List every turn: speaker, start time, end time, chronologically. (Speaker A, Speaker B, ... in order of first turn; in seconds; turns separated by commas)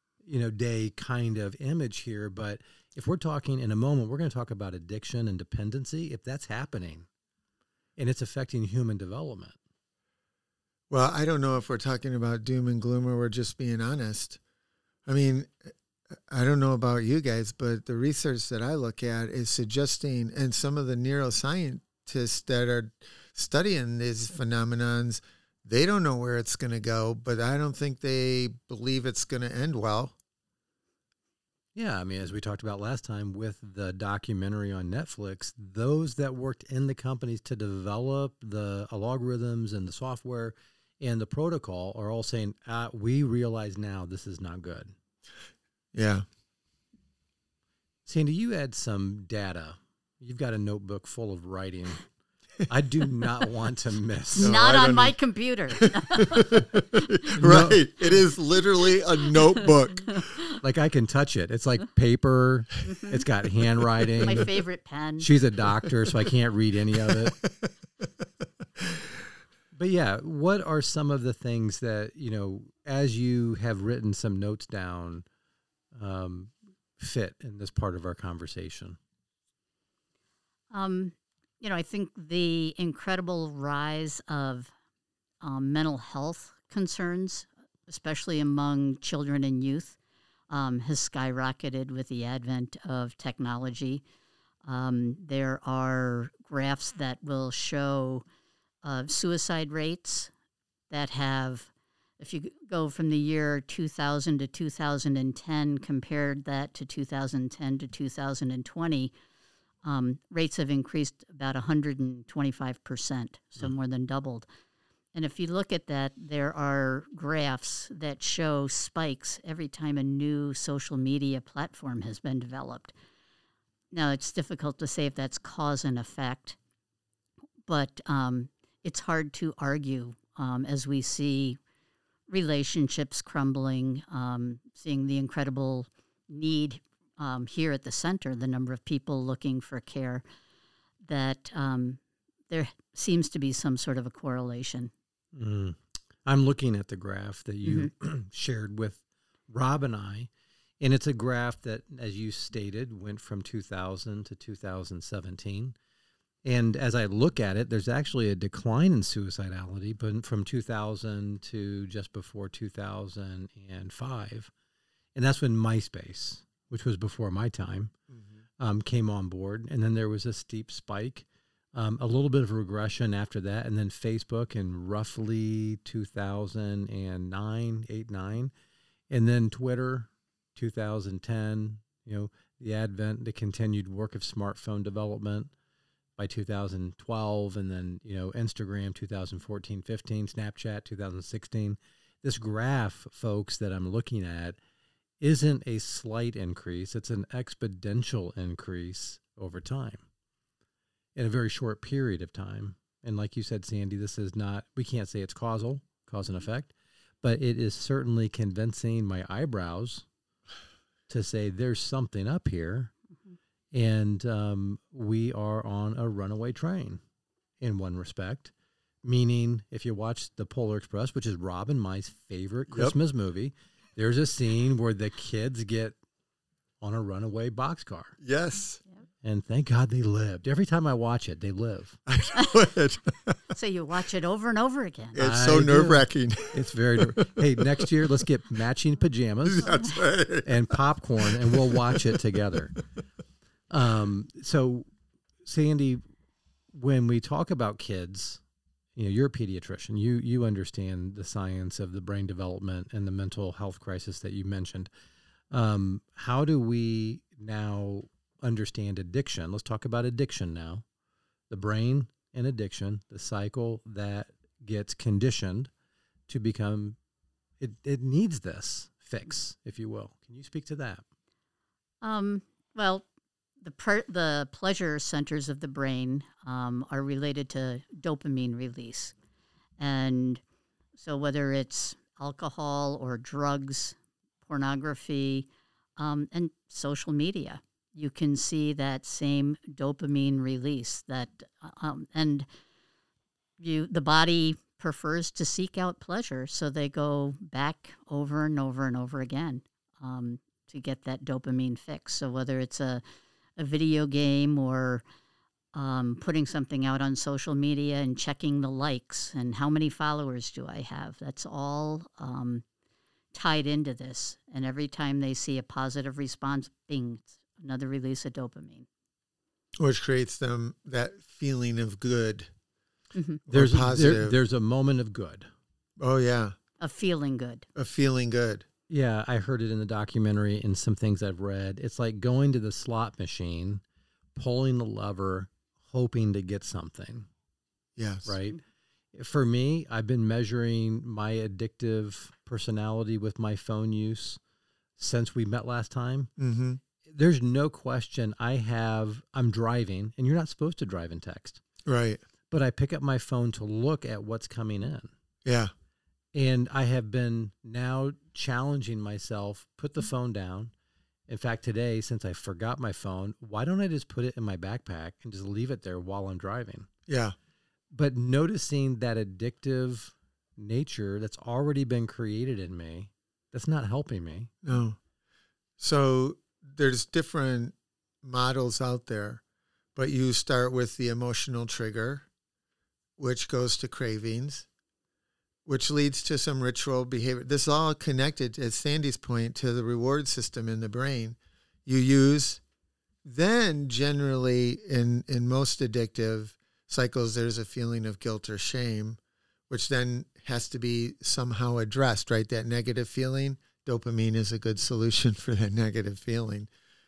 Speaker A: 0.2-7.1, Speaker A: 8.0-9.6, Speaker B: 10.9-14.4, Speaker B: 15.1-15.7, Speaker B: 16.3-30.1, Speaker A: 31.7-44.9, Speaker B: 45.9-46.2, Speaker A: 48.0-52.0, Speaker A: 52.7-54.5, Speaker B: 54.4-55.1, Speaker C: 54.4-56.6, Speaker B: 55.7-60.2, Speaker A: 57.4-57.8, Speaker A: 60.6-64.5, Speaker C: 62.9-63.2, Speaker C: 64.2-65.3, Speaker A: 65.2-67.4, Speaker B: 68.8-69.1, Speaker A: 69.7-75.2, Speaker A: 75.9-79.0, Speaker C: 80.7-84.7, Speaker C: 85.4-90.0, Speaker C: 90.5-94.0, Speaker C: 94.6-98.2, Speaker C: 98.8-100.3, Speaker C: 100.9-109.1, Speaker C: 109.8-114.5, Speaker C: 115.1-122.9, Speaker C: 123.9-126.6, Speaker C: 127.7-131.6, Speaker C: 132.3-140.2, Speaker C: 141.0-144.9, Speaker A: 145.3-150.3, Speaker C: 147.6-147.9, Speaker A: 150.8-155.8, Speaker A: 156.4-164.5, Speaker A: 165.2-167.9, Speaker B: 168.1-168.4, Speaker A: 168.6-178.5, Speaker A: 179.1-185.5, Speaker A: 186.2-194.6, Speaker A: 195.2-200.0, Speaker A: 201.2-210.1, Speaker A: 211.1-212.9, Speaker A: 213.7-217.0, Speaker A: 217.6-218.5, Speaker A: 219.0-225.9, Speaker A: 226.8-228.1, Speaker B: 228.2-228.8, Speaker A: 229.2-232.0, Speaker B: 232.1-233.4, Speaker C: 232.3-232.6, Speaker C: 233.5-235.2, Speaker B: 235.1-237.8, Speaker A: 235.2-239.8, Speaker B: 239.4-242.2, Speaker A: 240.4-242.7, Speaker A: 243.7-244.9, Speaker A: 245.4-246.0, Speaker A: 246.7-248.4, Speaker A: 248.9-254.9, Speaker A: 255.5-260.8, Speaker A: 261.5-265.7, Speaker A: 266.3-267.0, Speaker A: 267.6-271.0, Speaker C: 272.0-273.0, Speaker C: 273.6-279.1, Speaker C: 279.8-280.4, Speaker C: 281.0-292.5, Speaker C: 293.6-303.0, Speaker C: 303.6-305.0, Speaker C: 305.7-312.6, Speaker C: 313.3-318.9, Speaker B: 319.8-322.5, Speaker C: 323.1-323.4, Speaker B: 323.4-324.4, Speaker A: 323.5-325.5, Speaker B: 326.0-326.6, Speaker C: 326.8-327.7, Speaker B: 327.7-328.6, Speaker A: 328.9-333.8, Speaker A: 334.3-337.3, Speaker B: 337.9-338.3, Speaker A: 338.2-338.6, Speaker A: 339.1-344.4, Speaker A: 345.0-346.3, Speaker B: 346.4-346.8, Speaker A: 347.0-351.6, Speaker B: 351.8-352.2, Speaker A: 352.5-355.1, Speaker B: 355.4-355.7, Speaker A: 356.3-360.7, Speaker A: 361.3-366.9, Speaker B: 367.1-367.3, Speaker A: 367.9-374.5, Speaker B: 374.6-375.0, Speaker B: 375.8-379.4, Speaker B: 379.9-382.2, Speaker B: 383.2-384.7, Speaker B: 385.6-392.6, Speaker B: 393.2-399.2, Speaker B: 399.7-406.7